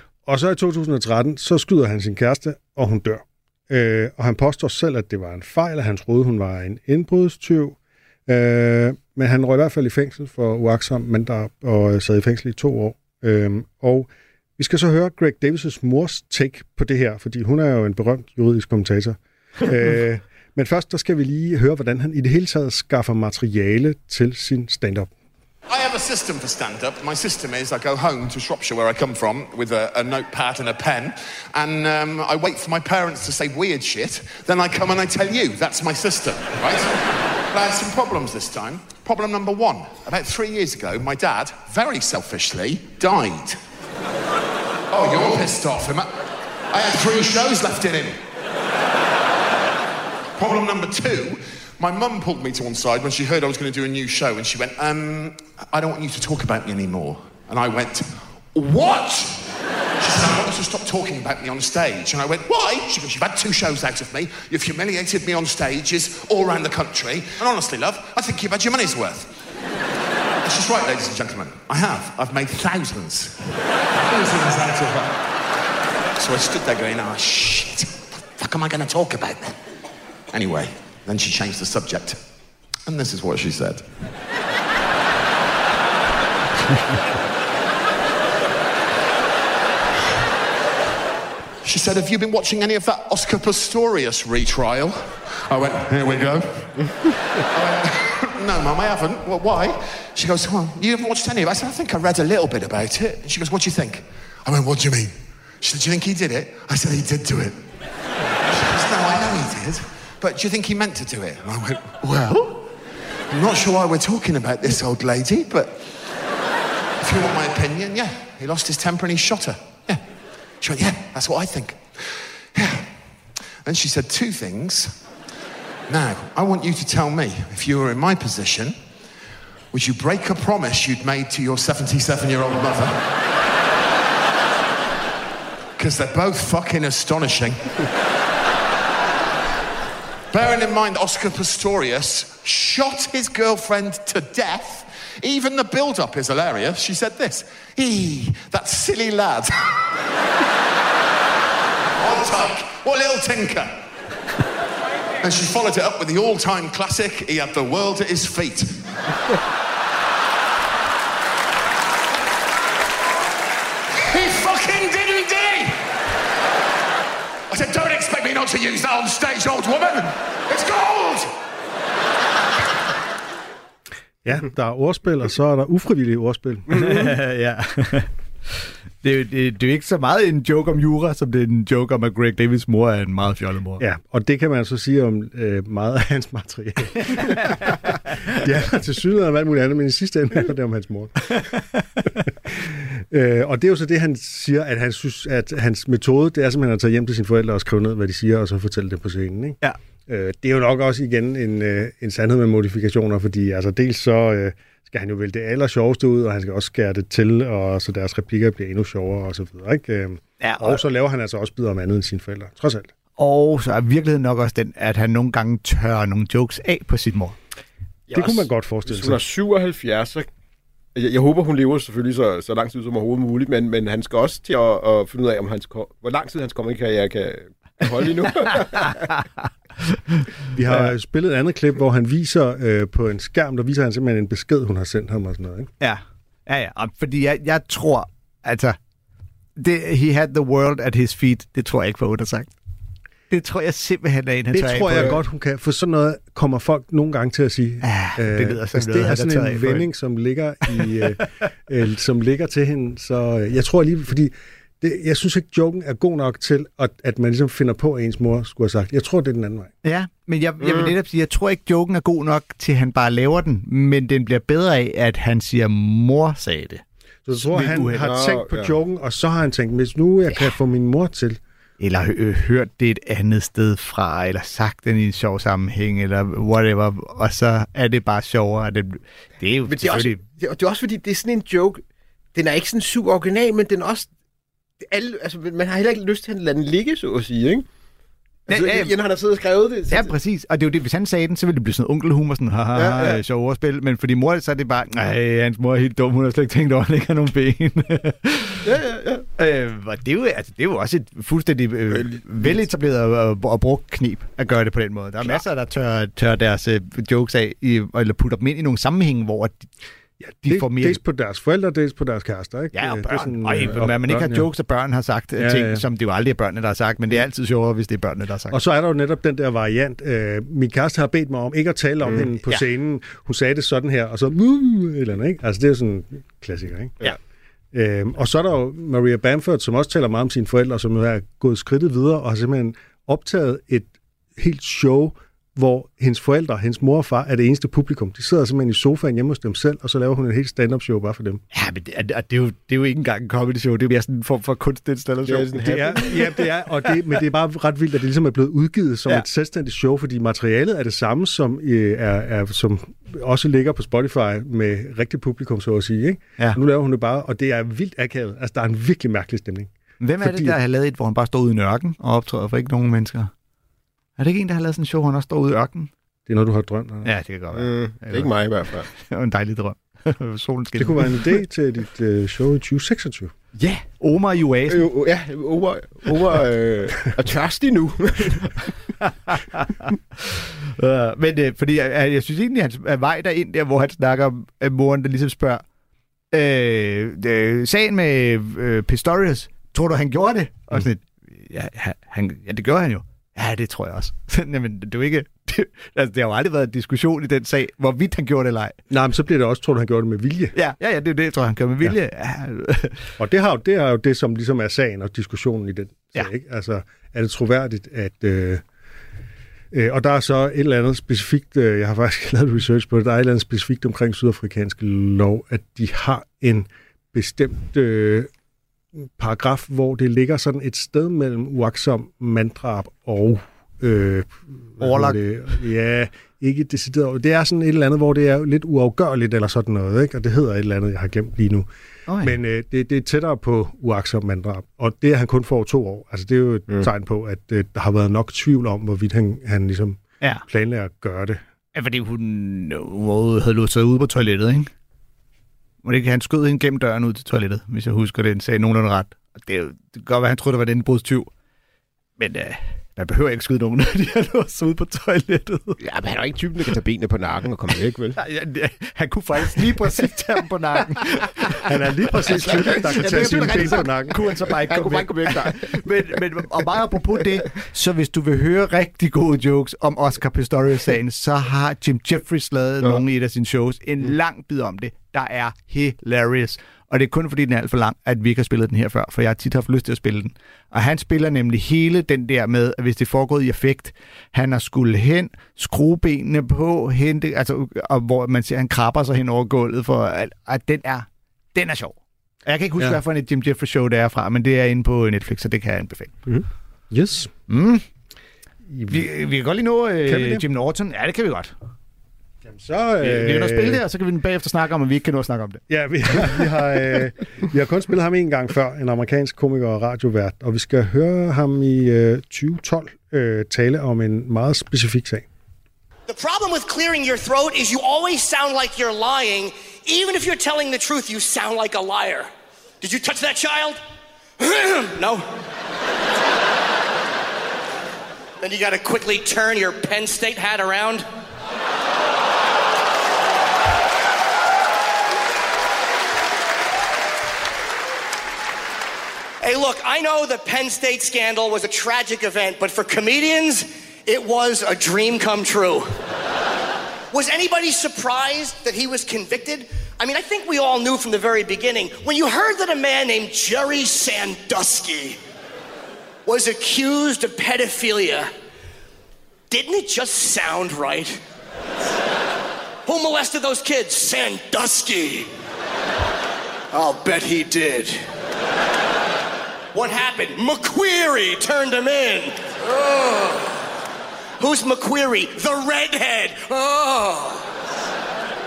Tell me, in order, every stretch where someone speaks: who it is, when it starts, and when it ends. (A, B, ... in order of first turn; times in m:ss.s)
0:00.3-0:25.1 A
0:25.7-0:43.6 B
0:44.9-0:46.1 B
0:46.7-0:48.2 B
0:50.4-1:09.3 B
1:10.4-1:15.2 B
1:16.2-1:19.6 B
1:20.3-1:22.2 B
1:22.9-1:23.9 B
1:31.6-1:37.0 B
1:37.5-1:47.7 B
1:48.5-1:52.7 B
1:53.3-1:56.0 B
1:57.0-2:00.0 B
2:00.6-2:02.9 B
2:03.6-2:05.1 B
2:05.9-2:08.8 B
2:09.7-2:13.2 B
2:15.8-2:17.9 B
2:20.3-2:29.9 B
2:32.0-2:33.8 B
2:35.2-2:39.0 B
2:44.0-2:45.8 B
2:47.5-2:51.3 B
2:54.2-2:56.8 A
2:56.7-3:03.8 C
3:03.8-3:11.4 A
3:07.1-3:07.7 C
3:11.3-3:12.3 C
3:12.4-3:32.9 A
3:30.4-3:30.8 C
3:33.2-3:37.4 C
3:38.1-3:40.3 D
3:38.1-3:39.2 A
3:41.0-3:49.1 D
3:48.8-3:50.2 C
3:50.5-3:55.7 A
3:55.8-3:58.8 C
3:59.6-4:02.5 C
4:03.3-4:05.2 C
4:04.5-4:19.7 A
4:07.8-4:09.9 C
4:10.7-4:11.1 C
4:19.8-4:26.8 C
4:20.6-4:20.9 D
4:27.2-4:31.4 A
4:27.5-4:28.2 C
4:28.0-4:28.7 D
4:31.8-4:40.2 C
4:39.7-4:41.8 D
4:42.3-4:44.1 D
4:44.8-4:47.6 D
4:48.5-4:48.9 C
4:48.5-4:50.2 D
4:49.9-4:58.7 C
4:52.8-4:53.2 D
4:58.6-4:59.3 D
4:59.4-5:09.7 C
5:01.9-5:02.6 D
5:10.4-5:11.0 C
5:10.4-5:14.5 A
5:12.7-5:18.6 C
5:15.4-5:15.8 A
5:18.5-5:27.0 A
5:27.7-5:41.4 A
5:41.5-5:46.2 C
5:45.3-5:46.2 D
5:45.6-6:00.6 A
6:00.0-6:03.3 C
6:04.2-6:05.9 C
6:06.3-6:07.1 A
6:07.0-6:08.3 C
6:07.5-6:08.9 D
6:08.9-6:11.3 C
6:10.8-6:13.3 A
6:13.6-6:13.8 D
6:14.0-6:14.9 C
6:14.7-6:18.8 D
6:19.3-6:25.6 C
6:26.3-6:38.8 C
6:38.9-6:40.6 A
6:40.6-6:43.0 C
6:43.2-6:48.6 A
6:49.7-6:58.3 A
6:59.2-7:11.7 A
7:04.8-7:05.2 C
7:12.1-7:12.4 C
7:12.2-7:21.4 A
7:21.7-7:24.7 C
7:25.8-7:31.3 C
7:32.2-7:35.8 C
7:35.8-7:38.2 D
7:38.2-7:41.6 C
7:41.6-7:44.3 A
7:42.3-7:46.0 D
7:42.4-8:16.2 C
8:16.3-8:17.3 A
8:17.5-8:17.8 C
8:18.7-8:19.0 A
8:18.9-8:21.5 C
8:20.1-8:20.4 A
8:22.5-8:23.8 A
8:23.0-8:25.6 C
8:25.7-8:35.3 A
8:36.1-8:42.3 E
8:42.8-8:43.8 E
8:44.4-8:45.3 E
8:48.4-8:51.1 E
8:59.4-9:05.9 E
9:07.1-9:15.2 E
9:16.3-9:18.3 E
9:19.5-9:21.2 E
9:22.9-9:25.3 E
9:26.7-9:28.0 E
9:29.7-9:33.6 E
9:34.4-9:37.5 E